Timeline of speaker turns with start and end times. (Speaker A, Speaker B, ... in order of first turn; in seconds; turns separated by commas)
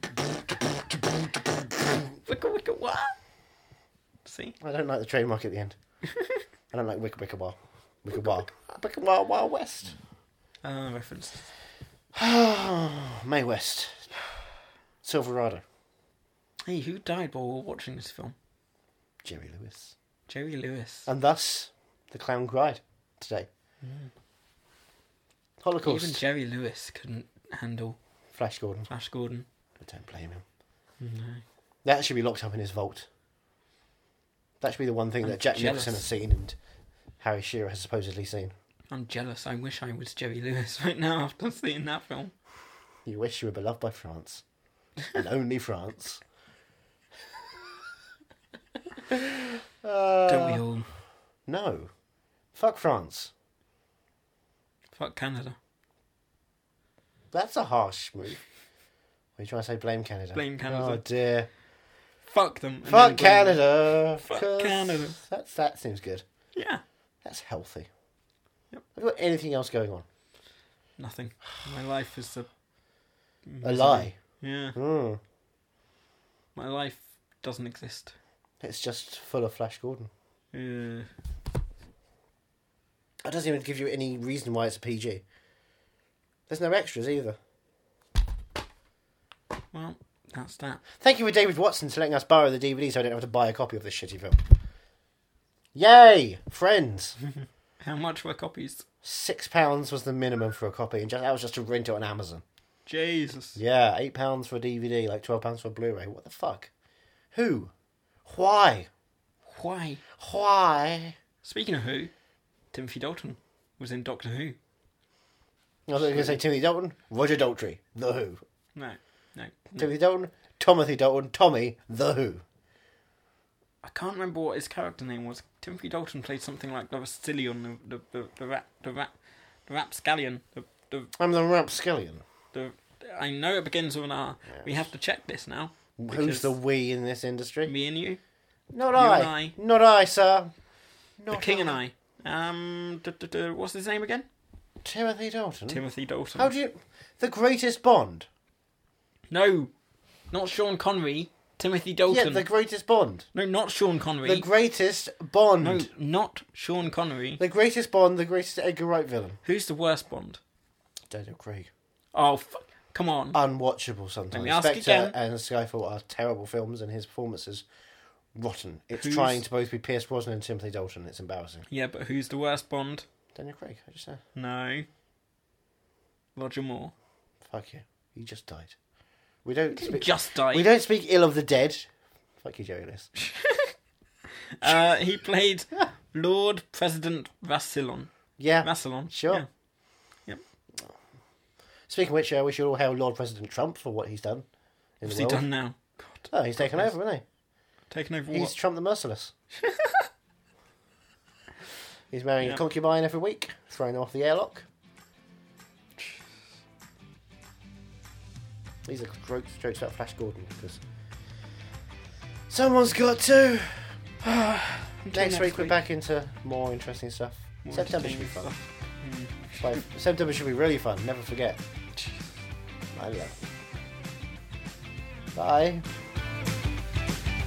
Speaker A: 2.2-3.1, Speaker A: 4.2-4.5, Speaker B: 4.6-5.8, Speaker B: 6.7-10.0, Speaker A: 10.6-11.5, Speaker B: 12.1-14.1, Speaker B: 15.0-15.6, Speaker A: 16.6-18.3, Speaker B: 19.2-19.9, Speaker A: 20.3-21.1, Speaker B: 21.1-23.5, Speaker A: 23.8-24.1, Speaker B: 25.6-26.2, Speaker A: 25.8-28.0, Speaker B: 28.3-28.9, Speaker A: 28.9-29.4, Speaker B: 29.8-30.4, Speaker A: 31.0-31.4, Speaker B: 31.8-33.1, Speaker B: 34.6-36.5, Speaker A: 35.2-36.0, Speaker B: 37.2-38.5, Speaker A: 38.9-42.3, Speaker B: 43.0-44.4, Speaker B: 45.1-46.2, Speaker B: 49.1-50.6, Speaker A: 50.3-50.9, Speaker B: 51.5-51.9, Speaker B: 52.5-53.3, Speaker A: 54.9-55.5, Speaker B: 57.3-58.4, Speaker B: 59.4-61.5, Speaker A: 60.3-61.0, Speaker A: 62.2-63.6, Speaker B: 62.8-66.2, Speaker A: 64.2-65.2, Speaker A: 66.5-66.8, Speaker B: 67.2-67.9, Speaker B: 68.9-70.0, Speaker A: 71.0-72.5, Speaker A: 73.5-74.8, Speaker B: 73.6-74.2, Speaker B: 74.7-75.2, Speaker A: 76.5-78.1, Speaker B: 78.6-80.1, Speaker A: 80.5-81.1, Speaker B: 83.2-85.2, Speaker B: 86.5-87.4, Speaker A: 89.7-90.8, Speaker B: 91.0-94.4, Speaker B: 95.7-97.2, Speaker A: 97.8-98.8, Speaker B: 99.0-102.4, Speaker A: 102.8-103.6, Speaker B: 103.5-106.7, Speaker B: 107.3-107.7, Speaker B: 108.2-108.9, Speaker A: 109.5-110.0, Speaker B: 110.2-111.2, Speaker A: 111.4-112.1, Speaker A: 112.7-114.6, Speaker B: 115.9-118.4, Speaker A: 116.0-116.4, Speaker A: 118.7-119.9, Speaker B: 119.8-122.4, Speaker A: 123.8-129.1, Speaker A: 129.7-131.1, Speaker B: 131.2-132.2, Speaker A: 132.5-136.5, Speaker B: 134.5-134.9, Speaker B: 136.0-137.7, Speaker A: 137.7-138.2, Speaker B: 138.7-140.5, Speaker A: 138.9-139.5, Speaker B: 141.2-141.8, Speaker A: 141.3-144.3, Speaker B: 144.8-145.8, Speaker A: 145.7-146.5, Speaker B: 146.3-148.3, Speaker A: 149.3-149.7, Speaker A: 150.3-152.5, Speaker B: 152.1-153.3, Speaker A: 153.3-154.5, Speaker B: 154.2-155.9, Speaker A: 155.6-157.4, Speaker B: 157.4-159.4, Speaker A: 159.4-160.4, Speaker B: 161.1-161.7, Speaker A: 162.1-163.4, Speaker B: 163.3-167.6, Speaker A: 164.3-165.2, Speaker B: 168.3-171.6, Speaker A: 168.9-169.4, Speaker A: 171.7-173.0, Speaker B: 173.3-174.2, Speaker A: 174.3-174.9, Speaker A: 176.3-176.9, Speaker B: 177.4-178.8, Speaker B: 179.4-183.1, Speaker A: 179.7-180.7, Speaker A: 183.2-183.7, Speaker A: 184.6-188.1, Speaker B: 188.4-189.5, Speaker A: 188.6-189.5, Speaker B: 191.9-194.4, Speaker B: 195.0-195.4, Speaker A: 195.0-196.9, Speaker B: 196.3-197.2, Speaker A: 197.9-198.5, Speaker B: 198.3-199.3, Speaker A: 199.6-200.1, Speaker B: 202.1-204.7, Speaker B: 208.8-210.8, Speaker B: 212.5-214.0, Speaker A: 214.2-215.8, Speaker B: 215.1-218.5, Speaker A: 217.6-219.8, Speaker B: 219.6-221.6, Speaker B: 222.9-223.4, Speaker B: 225.3-225.8